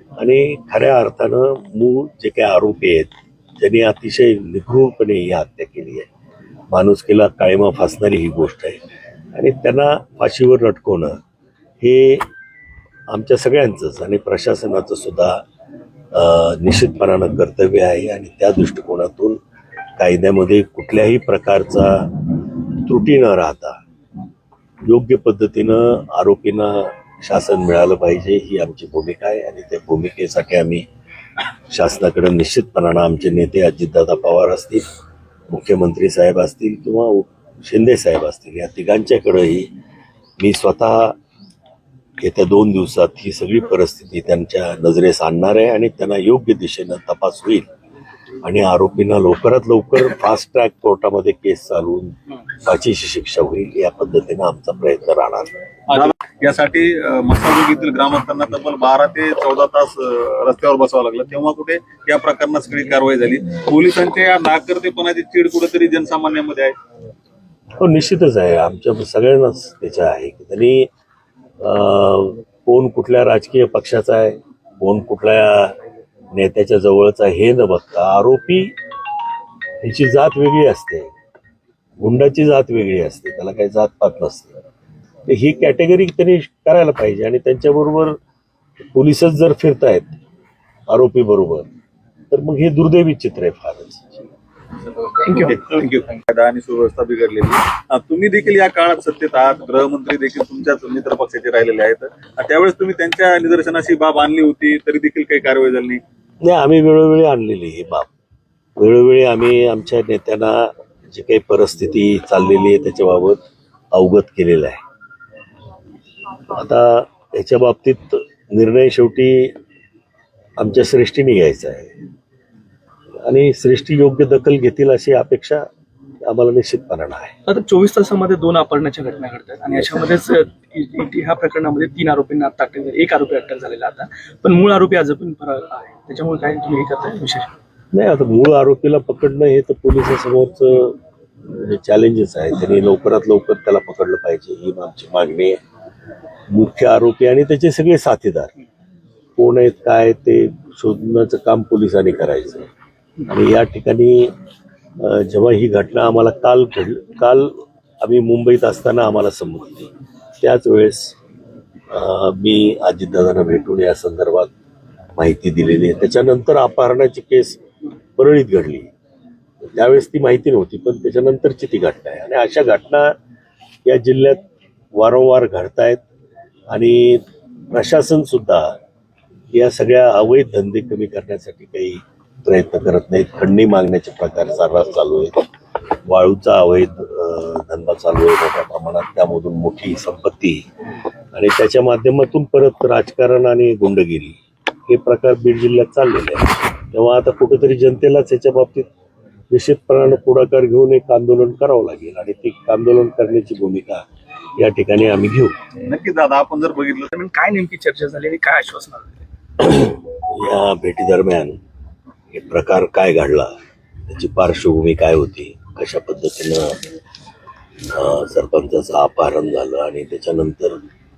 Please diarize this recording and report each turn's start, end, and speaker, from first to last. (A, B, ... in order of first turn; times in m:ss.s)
0:00.2-0:06.1 A
0:06.7-0:08.8 A
0:09.3-0:11.2 A
0:11.8-0:12.2 A
0:13.1-0:15.4 A
0:16.1-0:19.4 A
0:20.0-0:23.8 A
0:24.8-0:30.8 A
0:31.7-0:34.8 A
0:35.5-0:39.7 A
0:40.4-0:41.2 A
0:42.2-0:47.7 A
0:48.4-0:55.5 A
0:55.9-1:06.7 B
1:07.8-1:10.9 A
1:11.6-1:15.7 A
1:16.3-1:18.7 A
1:19.8-1:21.1 A
1:22.0-1:24.5 A
1:25.3-1:28.2 A
1:28.9-1:30.2 A
1:30.9-1:31.7 A
1:32.3-1:34.2 A
1:35.3-1:46.0 B
1:46.4-1:48.1 A
1:48.8-1:54.8 A
1:56.5-1:59.5 A
2:00.6-2:01.9 A
2:03.2-2:05.7 A
2:06.2-2:07.3 A
2:07.4-2:17.5 C
2:17.9-2:25.6 A
2:26.5-2:28.5 A
2:29.4-2:32.7 A
2:33.3-2:34.3 A
2:35.0-2:39.9 A
2:40.4-2:41.2 A
2:41.9-2:44.5 A
2:45.2-2:47.6 A
2:48.2-2:48.9 A
2:49.6-2:53.1 A
2:53.8-2:54.4 A
2:55.0-2:56.0 A
2:56.7-2:58.7 A
2:59.5-3:05.4 A
3:06.1-3:10.6 A
3:11.3-3:18.9 A
3:19.5-3:24.0 A
3:24.6-3:25.5 A
3:25.8-3:27.1 B
3:27.1-3:29.2 C
3:29.6-3:31.6 A
3:32.3-3:33.6 A
3:34.1-3:36.8 A
3:37.9-3:40.8 A